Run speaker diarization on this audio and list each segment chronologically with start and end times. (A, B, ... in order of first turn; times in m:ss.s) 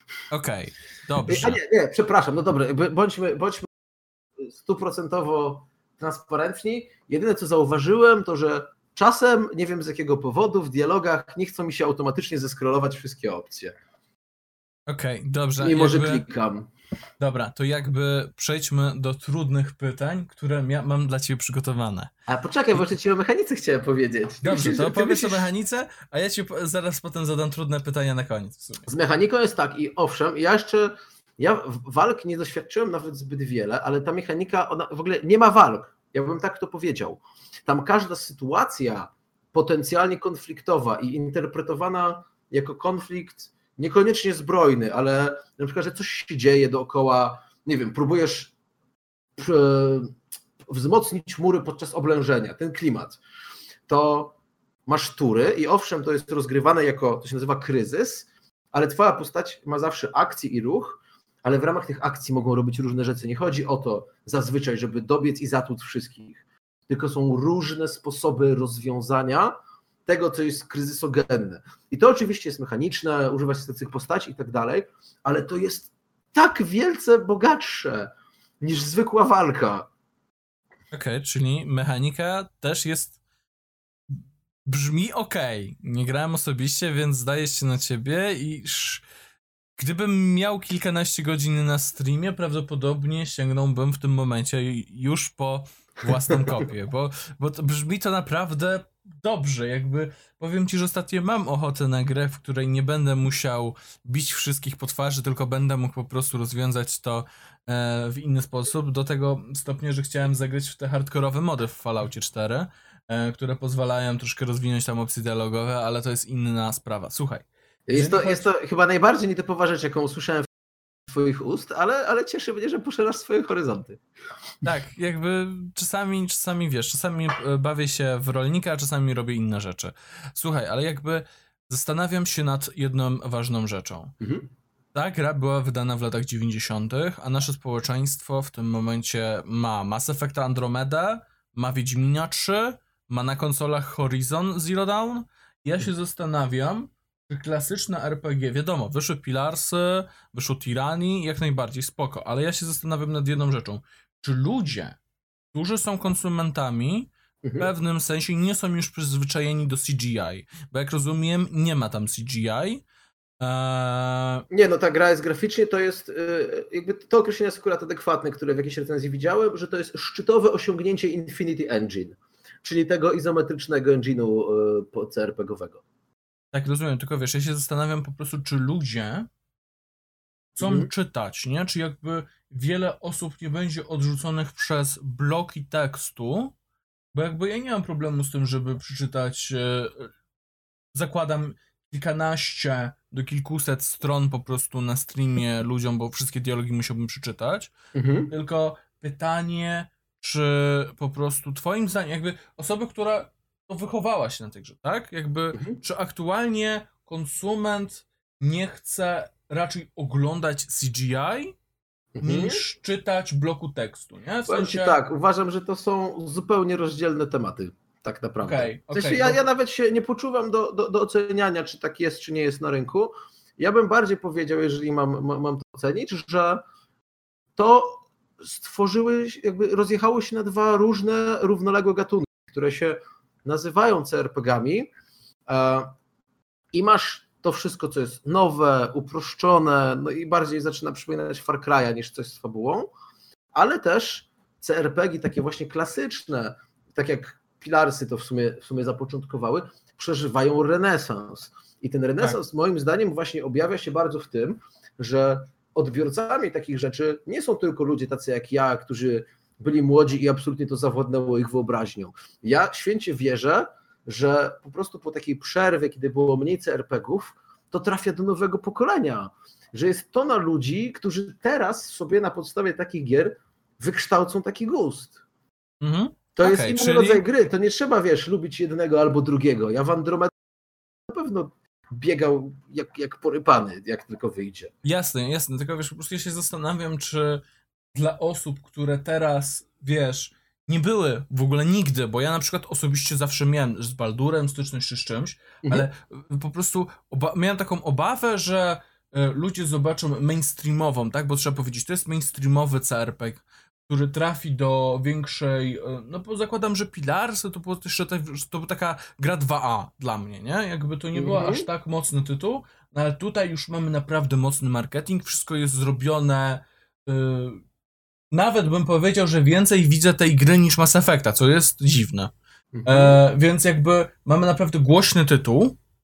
0:00.3-0:01.6 A
0:01.3-0:03.6 B
0:04.4-0:13.7 B
0:14.9-0:16.2 A
0:15.6-0:16.7 B
0:17.2-0:22.1 A
0:22.3-0:25.5 B
0:24.4-0:28.9 A
0:28.8-0:48.5 B
0:49.4-0:50.1 B
0:50.6-0:53.2 B
0:53.9-0:54.3 B
0:54.8-1:09.5 B
1:10.0-1:18.1 B
1:18.6-1:19.9 B
1:20.9-1:23.2 A
1:24.1-1:29.0 A
1:29.8-1:58.4 A
1:57.9-2:00.5 B
2:01.1-2:04.0 B
2:04.6-2:14.1 A
2:14.2-2:14.5 B
2:14.9-2:35.0 A
2:35.5-2:42.8 A
2:43.4-2:44.4 A
2:44.5-2:55.8 B
2:56.5-2:59.3 A
3:00.6-3:00.9 B
3:00.6-3:06.5 A
3:07.1-3:10.1 A
3:10.9-3:17.7 A
3:17.9-3:18.3 B
3:18.3-3:31.5 A
3:25.5-3:25.8 B
3:32.1-3:32.6 B
3:32.2-3:35.0 A
3:34.5-3:46.6 B
3:38.4-3:39.4 A
3:47.6-3:54.9 B
3:55.5-3:55.9 B
3:56.7-4:02.9 B
4:03.5-4:35.2 B
4:35.8-4:37.2 A
4:36.4-4:40.3 B
4:41.1-4:44.7 B
4:44.8-4:47.4 A
4:47.9-5:17.6 A
5:11.1-5:11.7 B
5:18.3-5:22.3 A
5:22.7-5:23.2 B
5:22.8-5:25.8 A